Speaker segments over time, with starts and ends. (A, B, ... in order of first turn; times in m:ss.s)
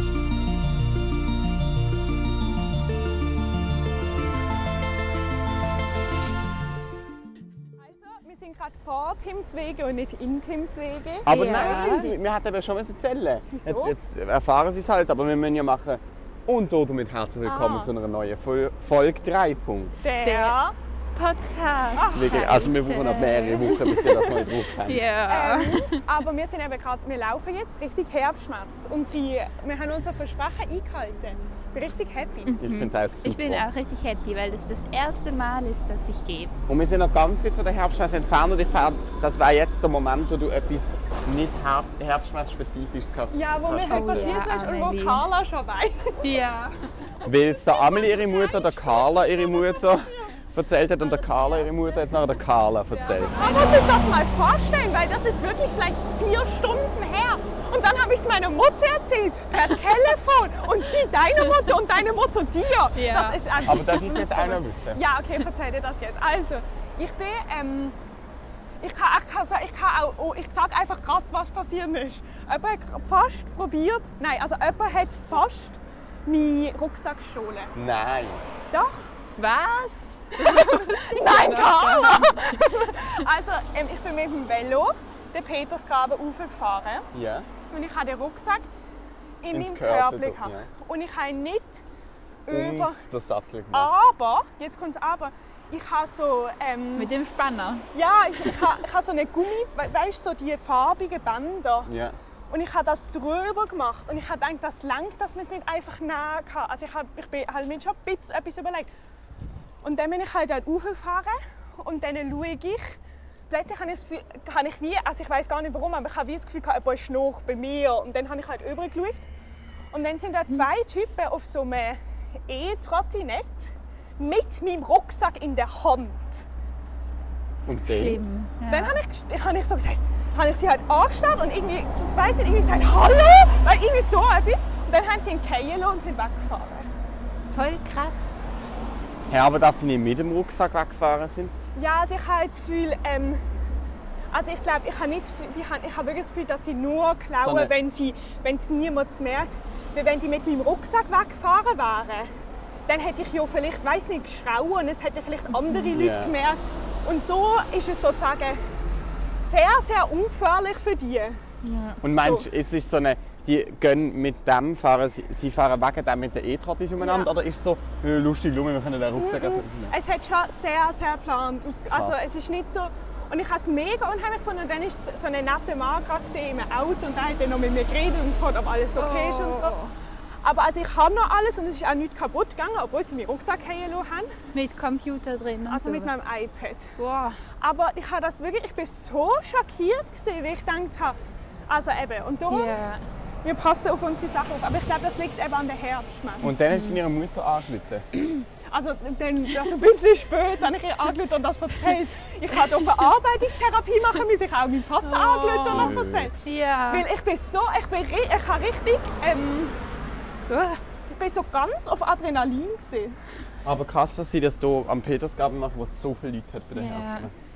0:07.8-0:12.1 A
0:11.2-0:20.0 B
0:11.3-0:12.1 C
0:13.5-0:14.0 A
0:17.4-0:17.9 A
0:20.0-0:20.8 A
0:20.2-0:20.6 C
0:21.2-0:24.1 C
0:22.0-0:22.4 A
0:22.1-0:25.0 B
0:24.0-0:24.5 A
0:24.8-0:26.0 C
0:25.3-0:32.6 A
0:32.5-0:36.6 C
0:32.6-0:33.7 B
0:36.7-0:44.4 B
0:43.3-0:46.3 A
0:43.9-0:45.2 C
0:46.2-0:46.8 C
0:47.2-0:53.4 B
0:47.3-0:50.0 A
0:51.2-0:51.8 A
0:53.1-1:08.0 A
0:53.4-0:54.2 C
1:03.0-1:04.0 C
1:03.6-1:05.0 B
1:08.8-1:17.7 A
1:17.8-1:18.4 B
1:18.7-1:19.1 A
1:19.4-1:23.0 C
1:20.4-1:27.1 A
1:27.1-1:27.5 B
1:27.7-1:28.7 A
1:29.4-1:31.8 A
1:29.5-1:30.7 B
1:32.5-1:33.0 A
1:32.5-1:33.9 B
1:33.7-1:37.1 A
1:37.0-1:37.8 C
1:37.9-1:41.9 A
1:41.9-1:42.2 B
1:42.5-1:48.9 A
1:49.8-1:53.0 A
1:53.5-1:59.3 A
1:59.9-2:06.5 A
2:07.7-2:08.2 B
2:07.8-2:09.0 C
2:08.7-2:16.9 A
2:17.5-2:18.4 C
2:19.3-2:21.5 B
2:21.8-2:23.4 A
2:24.3-2:32.3 A
2:27.4-2:27.7 B
2:32.9-2:38.6 A
2:35.9-2:36.3 B
2:39.4-2:41.4 A
2:41.6-2:42.0 C
2:42.0-2:50.0 B
2:42.1-2:42.5 A
2:47.0-2:47.3 A
2:49.2-2:59.8 A
2:51.9-2:52.4 B
2:59.0-2:59.9 C
3:00.4-3:04.3 A
3:04.5-3:06.2 C
3:05.7-3:07.0 A
3:07.0-3:07.4 C
3:07.6-3:11.2 A
3:11.7-3:12.8 A
3:12.5-3:13.0 C
3:13.4-3:16.5 A
3:16.4-3:18.1 B
3:16.4-3:17.0 C
3:18.7-3:26.4 A
3:25.0-3:27.1 C
3:25.7-3:26.3 B
3:26.9-3:29.8 A
3:30.5-3:30.8 C
3:31.1-3:33.2 A
3:33.6-3:37.3 B
3:36.8-3:37.3 C